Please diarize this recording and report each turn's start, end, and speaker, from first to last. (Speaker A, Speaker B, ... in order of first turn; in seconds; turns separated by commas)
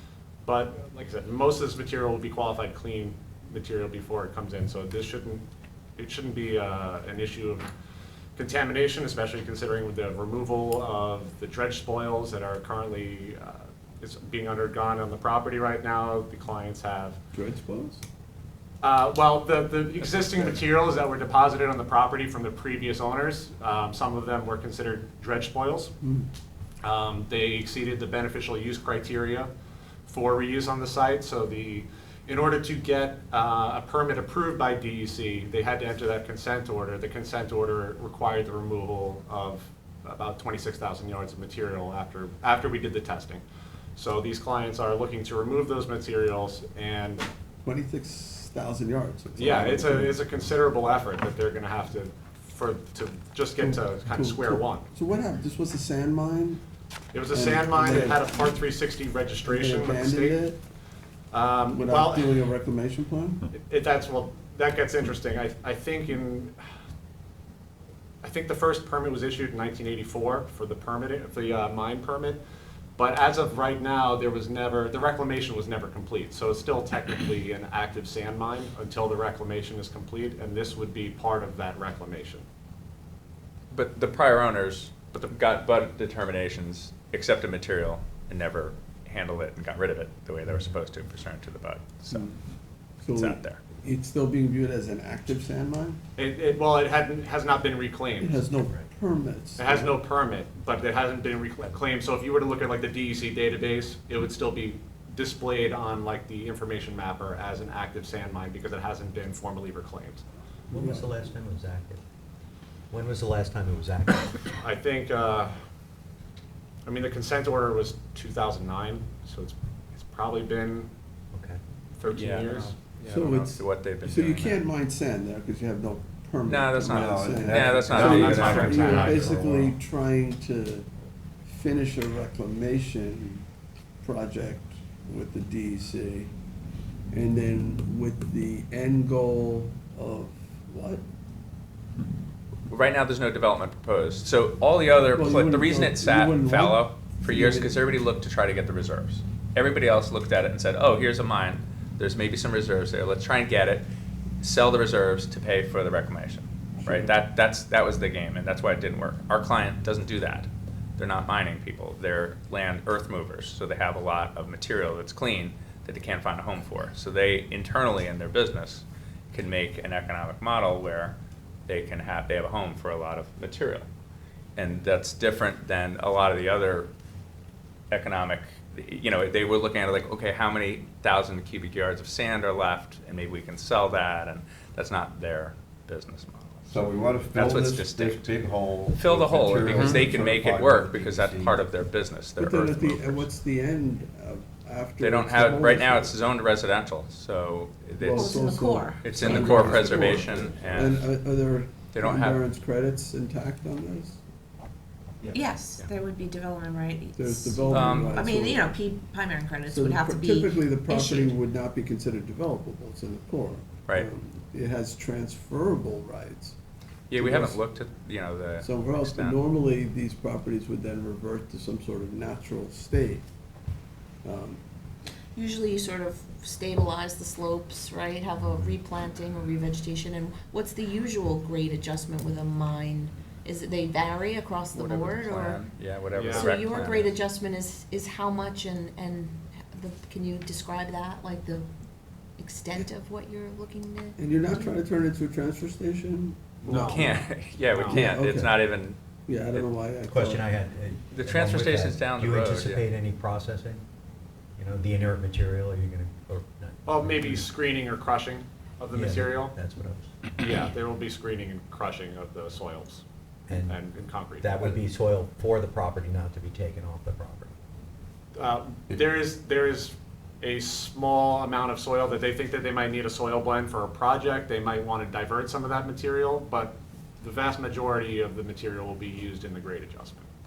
Speaker A: 0.4-5.4, Speaker A: 6.0-7.7, Speaker A: 8.3-17.2, Speaker B: 17.3-18.0, Speaker A: 18.8-25.9, Speaker B: 26.0-26.3, Speaker A: 26.8-29.5, Speaker A: 30.1-43.4, Speaker A: 43.9-47.2, Speaker B: 47.6-50.2, Speaker A: 49.4-54.9, Speaker B: 53.6-56.6, Speaker A: 57.1-60.4, Speaker B: 57.3-58.5, Speaker B: 59.4-60.6, Speaker A: 61.3-62.3, Speaker B: 61.7-63.5, Speaker A: 63.5-66.6, Speaker A: 68.2-72.4, Speaker A: 73.0-82.4, Speaker C: 83.7-92.3, Speaker B: 92.1-92.4, Speaker B: 93.0-96.0, Speaker C: 93.1-93.6, Speaker A: 96.2-98.4, Speaker B: 98.2-100.0, Speaker A: 99.6-110.2, Speaker D: 110.7-112.0, Speaker B: 110.7-111.1, Speaker D: 112.9-114.6, Speaker A: 114.6-115.5, Speaker A: 116.8-120.9, Speaker D: 121.3-121.6, Speaker A: 122.0-122.8, Speaker C: 122.1-124.6, Speaker B: 123.0-130.9, Speaker C: 126.5-129.3, Speaker E: 126.9-129.6, Speaker A: 127.9-129.4, Speaker D: 129.2-129.7, Speaker B: 131.4-133.4, Speaker B: 134.0-136.3, Speaker B: 137.1-141.0, Speaker C: 142.7-153.8, Speaker B: 145.1-147.8, Speaker C: 154.4-171.2, Speaker B: 156.8-157.1, Speaker C: 171.7-173.8, Speaker C: 174.6-176.9, Speaker C: 177.9-188.4, Speaker E: 186.7-191.6, Speaker C: 188.9-193.3, Speaker B: 192.4-196.1, Speaker C: 195.0-198.4, Speaker B: 198.0-204.2, Speaker F: 198.1-200.1, Speaker C: 199.0-201.1, Speaker C: 201.9-202.4, Speaker F: 205.3-211.3, Speaker B: 207.2-208.7, Speaker C: 207.7-208.2, Speaker B: 209.7-216.5, Speaker C: 217.1-219.4, Speaker B: 217.1-217.6, Speaker B: 218.6-223.2, Speaker B: 224.2-224.6, Speaker F: 225.3-235.7, Speaker C: 234.7-237.2, Speaker A: 236.1-236.6, Speaker F: 236.3-241.7, Speaker F: 242.4-244.8, Speaker B: 244.2-247.1, Speaker A: 246.6-247.1, Speaker C: 246.7-249.0, Speaker A: 247.7-248.0, Speaker B: 247.9-248.6, Speaker B: 249.3-250.4, Speaker D: 250.1-253.8, Speaker C: 251.1-252.8, Speaker D: 254.6-257.5, Speaker A: 256.9-259.5, Speaker D: 258.9-260.1, Speaker A: 260.4-263.0, Speaker D: 263.5-263.8, Speaker A: 263.6-264.8, Speaker D: 264.3-267.5, Speaker A: 268.4-280.2